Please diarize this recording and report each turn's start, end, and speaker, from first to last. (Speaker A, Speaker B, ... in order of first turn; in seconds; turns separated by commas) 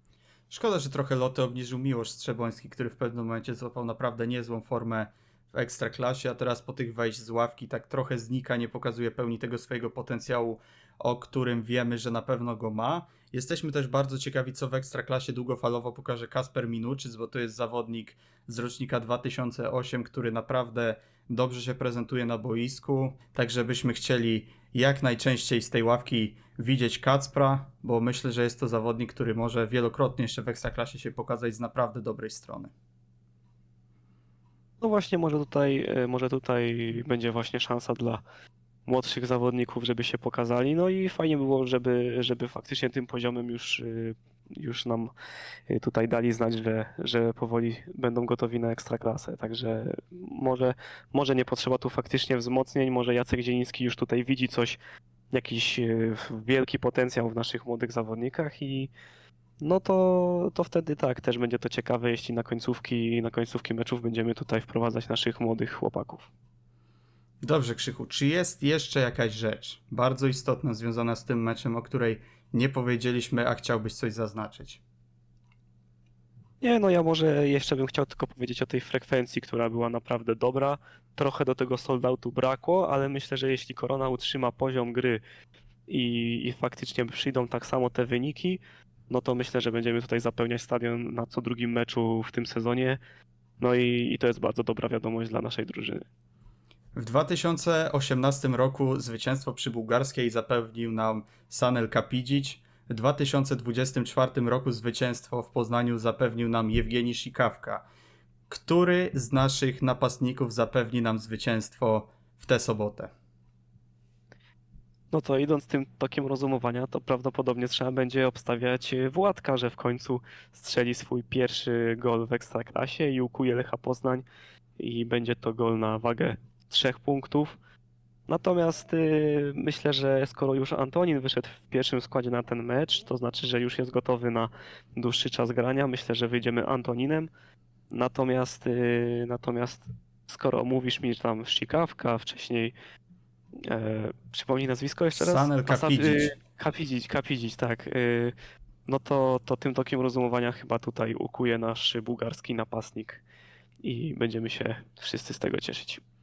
Speaker A: 0.5-32.7, Speaker B: 34.8-38.2, Speaker B: 38.9-45.1, Speaker B: 45.7-54.8, Speaker B: 55.3-58.9, Speaker B: 59.6-66.3, Speaker A: 67.4-74.8, Speaker B: 76.6-85.2, Speaker B: 85.9-93.0, Speaker B: 93.6-96.1, Speaker A: 96.9-107.8, Speaker A: 108.5-113.1, Speaker B: 115.1-124.2, Speaker B: 124.8-127.5, Speaker B: 128.3-137.3, Speaker B: 137.9-142.7, Speaker B: 143.6-148.3, Speaker A: 145.1-146.3, Speaker B: 148.8-153.2, Speaker B: 153.8-156.0